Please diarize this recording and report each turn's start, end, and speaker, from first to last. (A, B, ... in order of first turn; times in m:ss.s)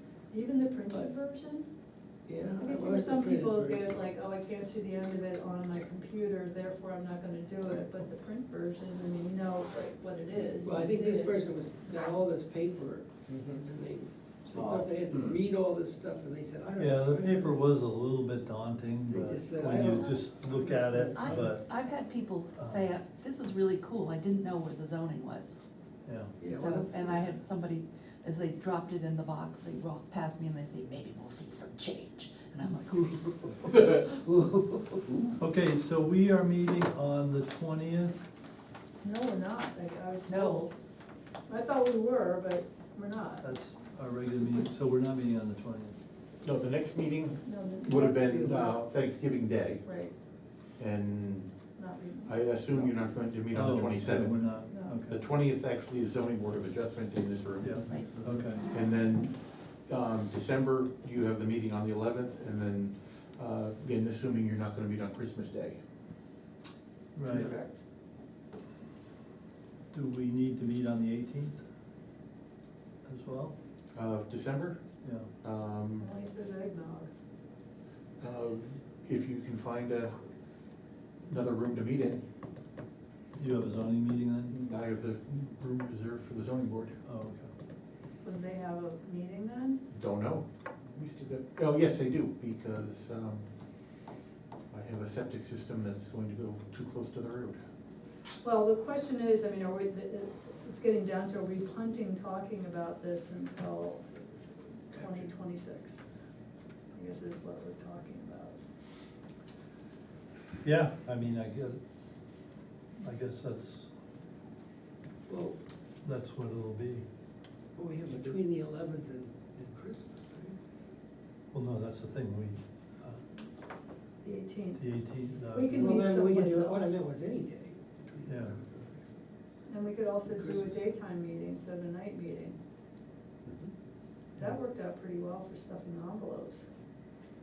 0:00.3-0:01.7 A
0:02.3-0:04.1 B
0:02.5-0:11.4 A
0:10.6-0:17.8 B
0:16.8-0:21.6 C
0:19.1-0:21.6 B
0:19.7-0:20.0 D
0:21.1-0:25.6 D
0:22.6-0:23.0 C
0:26.0-0:26.3 C
0:26.4-0:27.3 B
0:26.5-0:35.3 D
0:35.4-0:38.2 C
0:39.0-0:40.7 A
0:40.3-0:40.7 D
0:41.5-0:43.5 A
0:43.4-0:46.0 C
0:46.4-0:49.8 E
0:47.4-0:48.8 A
0:48.3-0:48.7 B
0:49.8-0:50.1 A
0:50.8-0:51.6 E
0:51.8-0:52.4 A
0:52.2-0:59.4 E
0:53.5-0:55.2 C
0:54.6-0:55.0 A
0:57.6-0:58.6 C
0:57.9-0:58.7 D
0:59.9-1:05.8 E
1:07.2-1:07.5 C
1:07.2-1:07.7 E
1:09.9-1:11.6 C
1:13.0-1:13.6 C
1:14.0-1:14.8 E
1:15.0-1:15.3 C
1:15.4-1:16.1 E
1:16.0-1:17.1 A
1:18.2-1:20.2 E
1:21.3-1:22.2 E
1:23.4-1:24.6 C
1:24.5-1:27.0 E
1:27.1-1:27.5 C
1:28.2-1:29.8 A
1:29.9-1:33.4 E
1:34.7-1:37.6 E
1:38.4-1:44.1 A
1:44.9-1:46.0 A
1:45.0-1:45.2 B
1:46.9-1:48.6 A
1:50.6-1:51.8 C
1:53.0-1:53.9 C
1:55.3-1:55.6 B
1:56.0-1:57.0 C
1:57.8-2:00.6 B
2:01.5-2:03.3 C
2:04.2-2:04.9 A
2:04.8-2:06.0 C
2:05.5-2:07.0 A
2:05.7-2:09.2 B
2:08.3-2:08.6 C
2:09.7-2:12.6 A
2:10.3-2:10.9 B
2:14.4-2:16.7 A